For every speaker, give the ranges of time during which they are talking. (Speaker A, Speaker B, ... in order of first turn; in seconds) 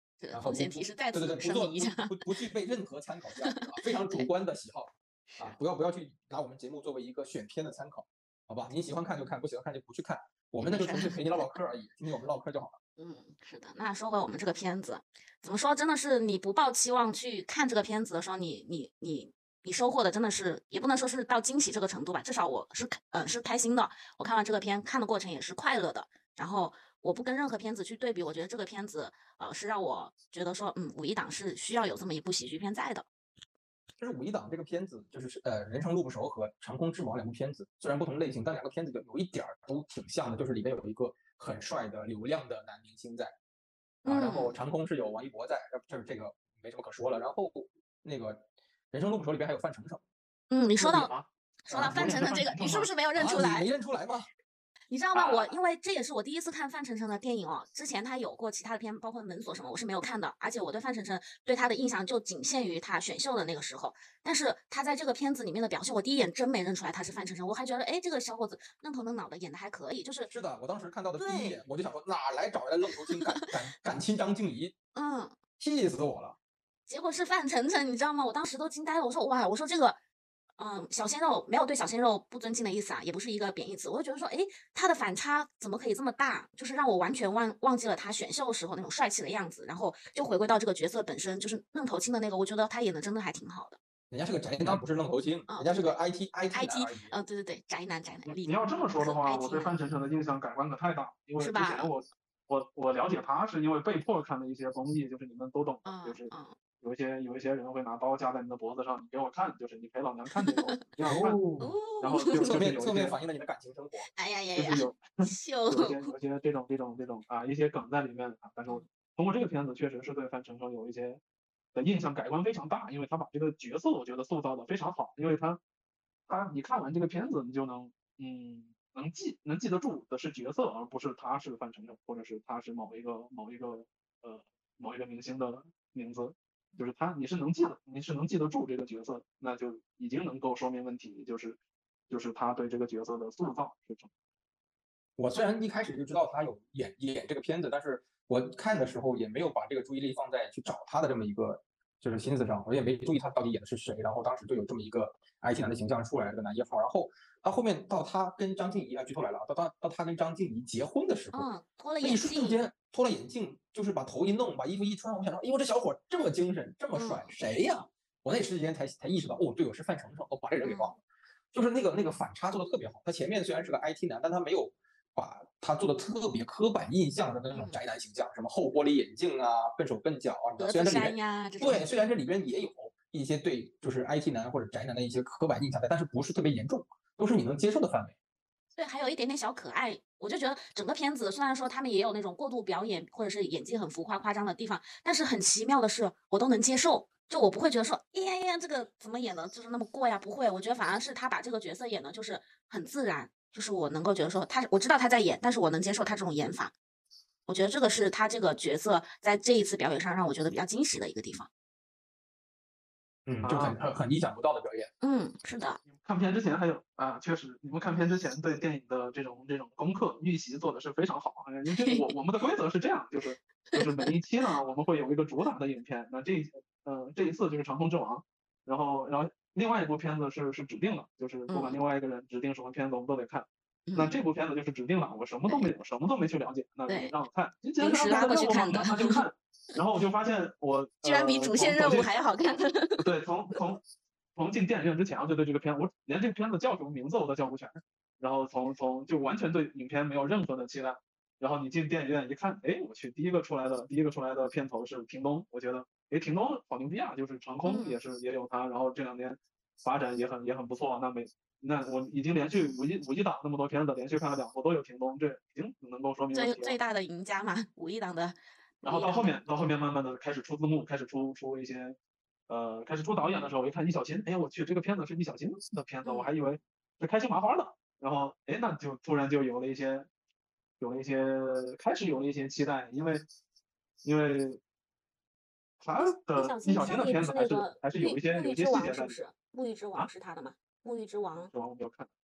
Speaker A: 0.2-2.1, 3.5-4.3, 10.6-11.6, 13.0-33.1, 44.0-44.6, 50.5-51.1, 51.7-53.7, 54.9-70.3, 71.2-71.6, 73.0-73.4, 75.0-75.4, 76.9-80.0, 80.6-93.8, 95.5-96.0, 96.5-99.8, 101.4-101.9, 105.8-106.6, 110.4-110.8, 111.6-112.7, 114.1-116.1, 161.3-162.6, 166.9-167.3, 170.6-171.0, 177.5-177.8, 180.6-181.9, 188.8-206.7, 207.5-211.5, 215.0-215.8, 221.7-222.1, 223.7-224.0, 231.5-231.8, 233.9-234.2, 235.4-235.7, 236.9-237.1, 237.8-239.2, 241.0-243.1, 257.6-258.0, 266.3-269.4, 276.0-276.3, 285.9-291.5
Speaker B: 0.3-12.8, 34.0-43.3, 44.0-50.0, 51.7-52.3, 53.1-54.3, 70.3-74.7, 75.6-76.4, 94.1-97.2, 111.0-111.8, 112.3-114.1, 145.2-161.5, 162.0-171.0, 171.5-188.2, 213.3-214.9
Speaker C: 50.8-52.9, 55.1-55.5, 98.3-113.2, 114.5-121.2, 121.7-125.6, 126.3-141.6, 142.1-144.1, 213.4-213.8, 215.9-242.4, 242.9-243.8, 244.4-266.8, 268.8-272.0, 272.5-280.1, 280.8-283.2, 284.0-284.6, 285.8-289.1, 291.5-292.1